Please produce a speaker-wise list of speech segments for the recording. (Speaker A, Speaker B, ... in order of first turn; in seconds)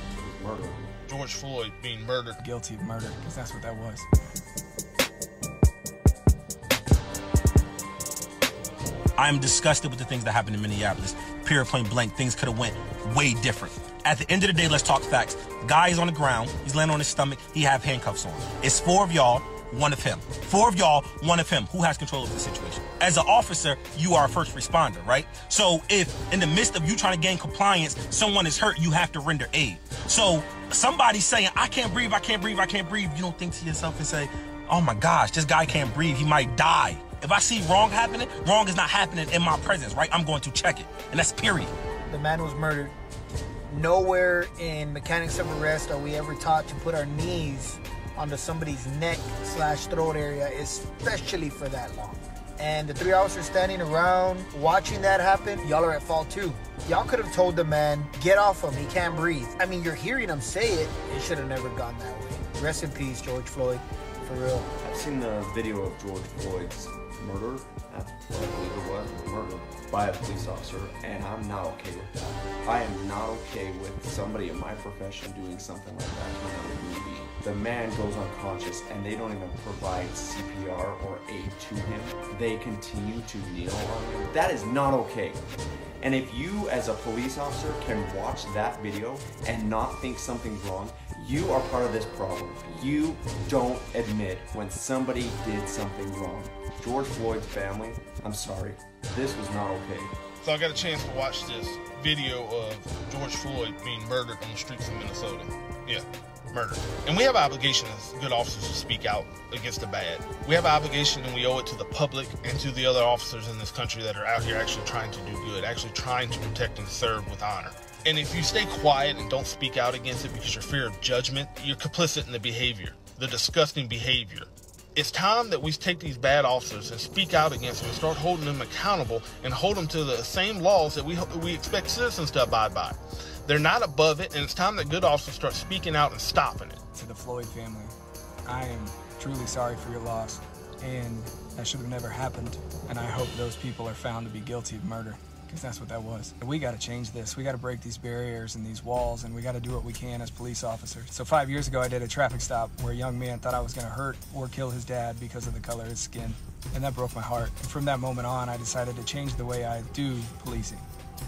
Speaker A: 0.2-0.9, 64.8-85.4, 86.0-100.1
Speaker B: 1.1-2.4, 100.4-136.8
Speaker C: 2.4-4.0, 136.9-160.9
Speaker D: 9.2-41.7
Speaker E: 42.1-42.9, 43.7-64.7